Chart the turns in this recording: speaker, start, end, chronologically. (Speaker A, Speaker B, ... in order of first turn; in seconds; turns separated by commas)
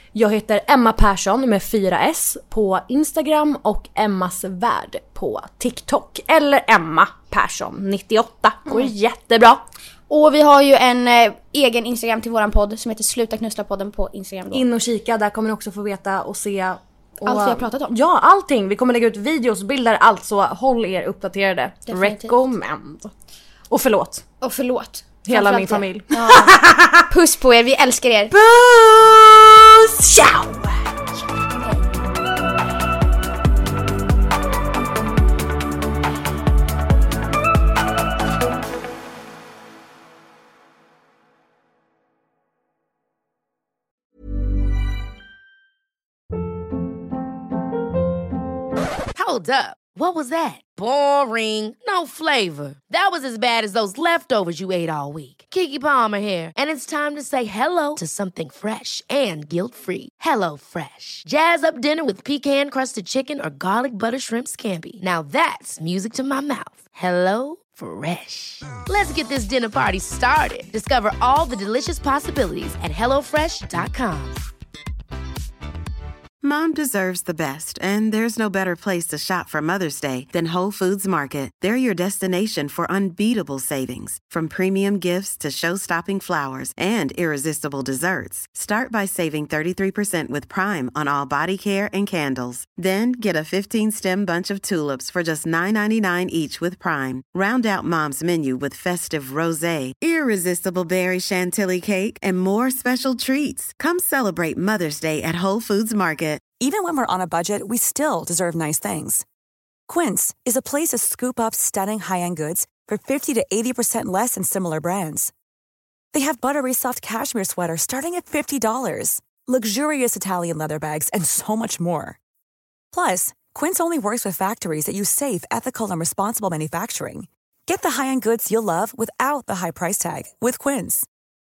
Speaker A: 0.1-9.6, Speaker B: 10.1-14.7, Speaker A: 14.5-23.1, Speaker B: 17.2-17.9, Speaker B: 21.9-22.4, Speaker A: 23.7-24.2, Speaker B: 24.4-28.3, Speaker A: 25.2-27.0, Speaker A: 28.3-31.0, Speaker B: 31.6-31.9, Speaker C: 49.1-74.4, Speaker D: 76.4-106.5, Speaker E: 106.6-109.2, Speaker E: 109.9-115.3, Speaker E: 116.1-122.2, Speaker E: 122.9-131.1